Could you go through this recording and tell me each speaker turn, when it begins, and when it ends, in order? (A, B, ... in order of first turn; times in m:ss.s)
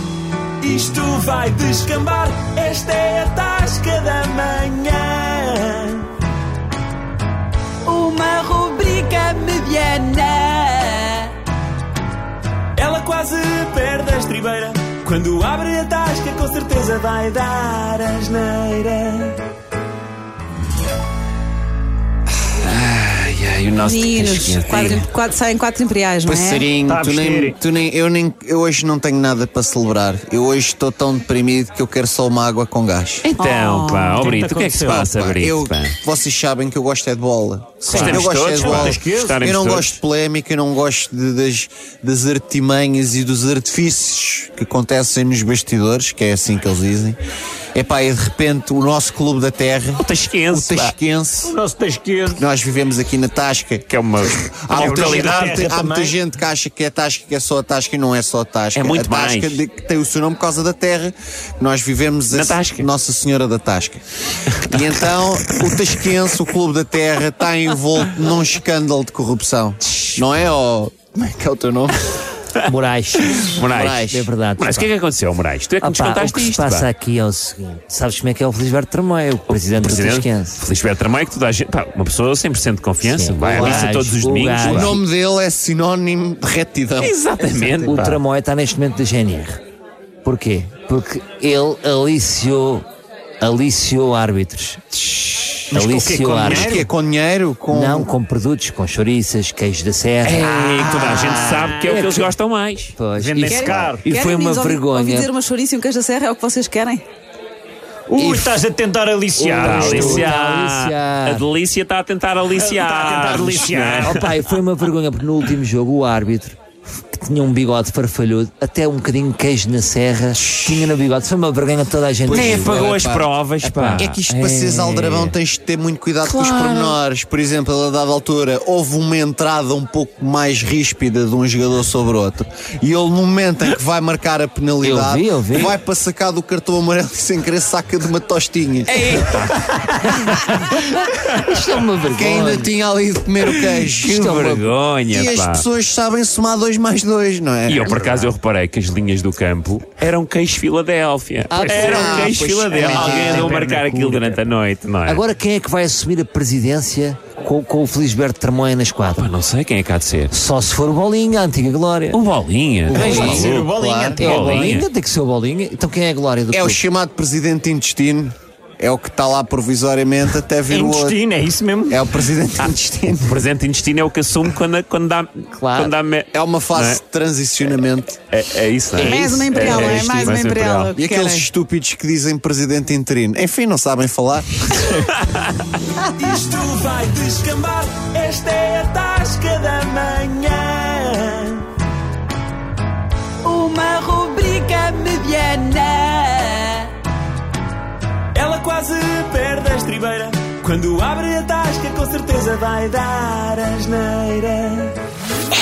0:00.6-0:06.1 A
0:07.8-0:11.3 B
0:12.8-0:19.4 A
0:22.6-0:25.1 C
0:23.8-0:26.7 B
0:26.2-0:33.2 D
0:26.8-0:27.6 E
0:33.2-0:35.9 C
0:33.4-0:34.1 B
0:34.0-0:35.1 E
0:34.8-0:47.2 D
0:37.9-0:39.4 E
0:37.9-0:40.0 C
0:47.7-0:51.6 D
0:50.0-0:50.9 C
0:51.4-0:52.4 E
0:52.3-1:04.0 D
0:53.9-0:55.6 C
0:54.7-0:56.2 E
0:58.8-0:59.6 C
1:02.3-1:02.9 C
1:04.6-1:12.0 D
1:12.6-1:14.9 F
1:13.4-1:16.9 C
1:15.8-1:20.6 F
1:19.5-1:24.9 C
1:23.0-1:25.0 F
1:23.5-1:23.9 D
1:24.6-1:27.1 D
1:27.0-1:28.2 C
1:27.6-1:29.6 F
1:30.2-1:32.9 F
1:33.4-1:36.8 F
1:35.7-1:36.9 E
1:36.4-1:38.1 D
1:37.7-1:42.3 F
1:40.2-1:43.0 C
1:40.6-1:42.1 E
1:43.0-1:45.3 F
1:43.1-1:44.0 E
1:43.5-1:47.0 B
1:48.1-1:50.4 E
1:48.2-1:48.6 F
1:49.3-1:54.3 C
1:49.5-1:51.4 F
1:52.5-1:54.1 E
1:53.3-1:56.6 F
1:57.1-2:02.8 F
2:00.4-2:01.0 D
2:02.3-2:03.3 D
2:02.3-2:05.3 C
2:03.6-2:04.1 F
2:04.0-2:19.0 D
2:06.2-2:06.9 C
2:14.8-2:15.8 F
2:18.9-2:20.6 C
2:21.3-2:22.7 F
2:22.1-2:24.4 D
2:24.0-2:24.7 F
2:24.1-2:25.6 C
2:25.1-2:28.2 D
2:27.7-2:35.2 C
2:31.5-2:34.4 F
2:31.6-2:33.4 D
2:33.3-2:33.7 E
2:35.0-2:39.3 F
2:39.2-2:40.3 C
2:40.3-2:42.2 F
2:42.1-2:43.7 C
2:42.9-2:44.2 D
2:42.9-2:44.6 E
2:42.9-2:43.5 F
2:44.2-2:46.8 F
2:44.2-2:44.8 C
2:46.5-2:51.2 D
2:50.7-2:52.0 E
2:51.9-2:53.4 D
2:52.6-2:57.0 C
2:55.5-2:55.9 F
2:56.3-2:58.2 D
2:58.3-3:01.0 C
2:59.0-3:01.5 B
3:00.9-3:04.7 D
3:05.0-3:05.4 C
3:06.2-3:11.7 A
3:13.4-3:16.9 B
3:18.3-3:25.0 A